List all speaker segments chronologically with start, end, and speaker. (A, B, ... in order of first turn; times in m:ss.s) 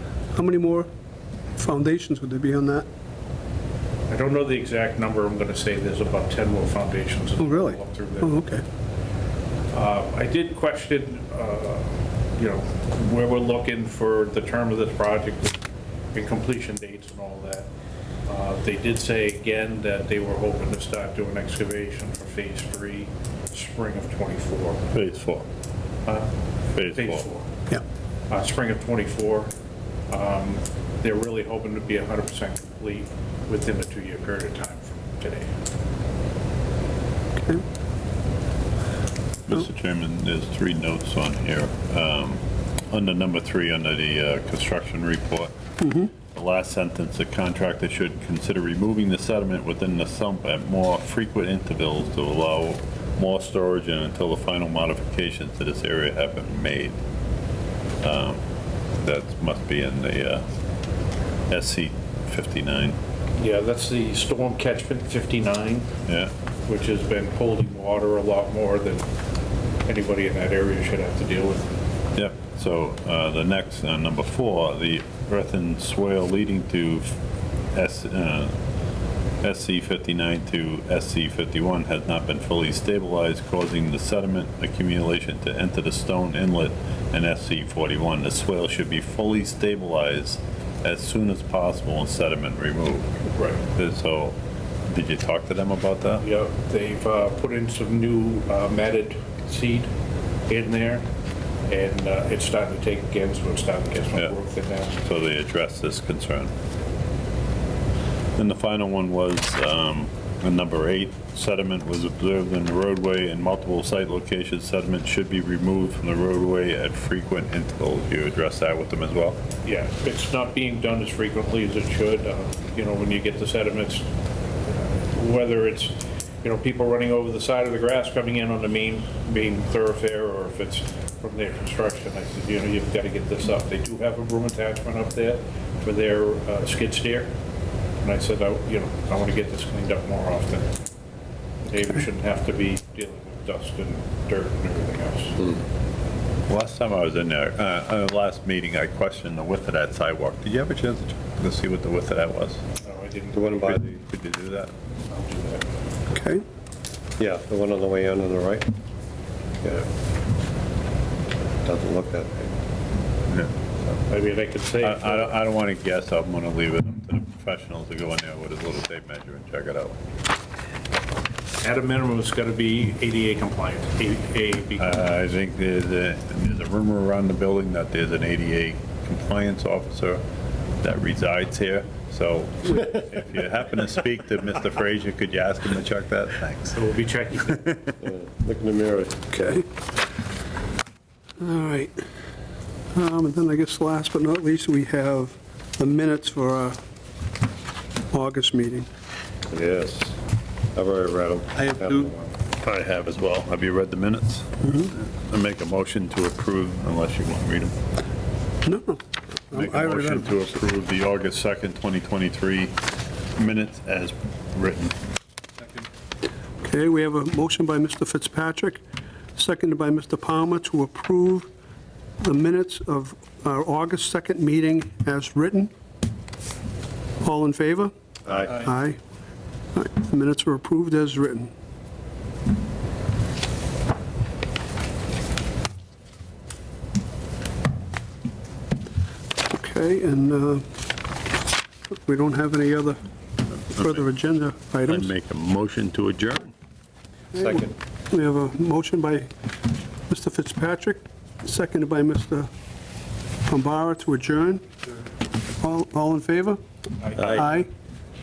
0:00.3-0:00.9 A
0:01.6-0:02.8 A
0:04.1-0:08.4 B
0:07.4-0:08.6 A
0:09.7-0:15.6 B
0:16.1-0:17.7 B
0:18.3-0:24.8 B
0:24.9-0:25.4 C
0:26.7-0:27.2 C
0:26.9-0:27.5 B
0:28.3-0:29.5 B
0:30.1-0:35.5 B
0:39.5-0:45.5 C
0:45.8-0:46.1 A
0:46.3-0:57.0 C
0:58.0-0:58.4 C
0:59.0-1:00.4 C
1:01.5-1:03.0 C
1:03.4-1:05.9 B
1:06.1-1:06.3 C
1:06.7-1:09.0 B
1:09.8-1:11.7 B
1:12.1-1:17.1 C
1:17.7-1:18.5 C
1:19.4-1:33.1 C
1:33.3-1:33.6 B
1:33.8-1:34.4 C
1:34.9-1:36.2 C
1:36.2-1:39.9 B
1:40.5-1:41.0 B
1:41.6-1:45.0 B
1:45.0-1:46.5 C
1:48.4-1:59.4 C
1:59.6-2:04.1 B
2:05.1-2:17.3 B
2:18.0-2:20.8 B
2:21.6-2:25.5 B
2:26.5-2:32.6 C
2:32.8-2:33.8 B
2:33.3-2:33.8 D
2:33.6-2:34.7 C
2:35.1-2:35.6 B
2:36.1-2:36.4 A
2:37.2-2:38.7 D
2:41.6-2:42.5 D
2:43.3-2:44.0 C
2:44.1-2:45.3 B
2:44.8-2:50.0 C
2:51.6-2:55.1 B
2:54.8-3:00.2 C
3:00.8-3:06.8 C
3:06.7-3:07.7 B
3:08.0-3:09.3 D
3:09.3-3:09.6 A
3:11.4-3:12.0 A
3:12.9-3:16.8 A
3:18.1-3:18.9 A
3:19.5-3:20.2 D
3:20.7-3:22.2 D
3:21.6-3:27.7 C
3:24.6-3:24.9 A
3:28.6-3:30.3 A
3:29.5-3:32.8 C
3:33.4-3:35.0 C
3:36.6-3:38.8 A
3:39.4-3:41.5 A
3:42.2-3:45.7 A
3:47.2-3:47.9 A
3:48.3-3:48.6 D
3:48.5-3:49.0 A
3:49.7-3:51.5 A
3:59.5-4:00.6 A
4:01.9-4:03.0 A
4:03.8-4:05.1 A
4:04.8-4:06.5 C
4:07.3-4:09.3 A
4:07.3-4:07.7 D
4:10.1-4:12.5 A
4:13.5-4:14.6 A
4:15.6-4:16.6 A
4:17.1-4:17.7 A
4:17.2-4:17.5 D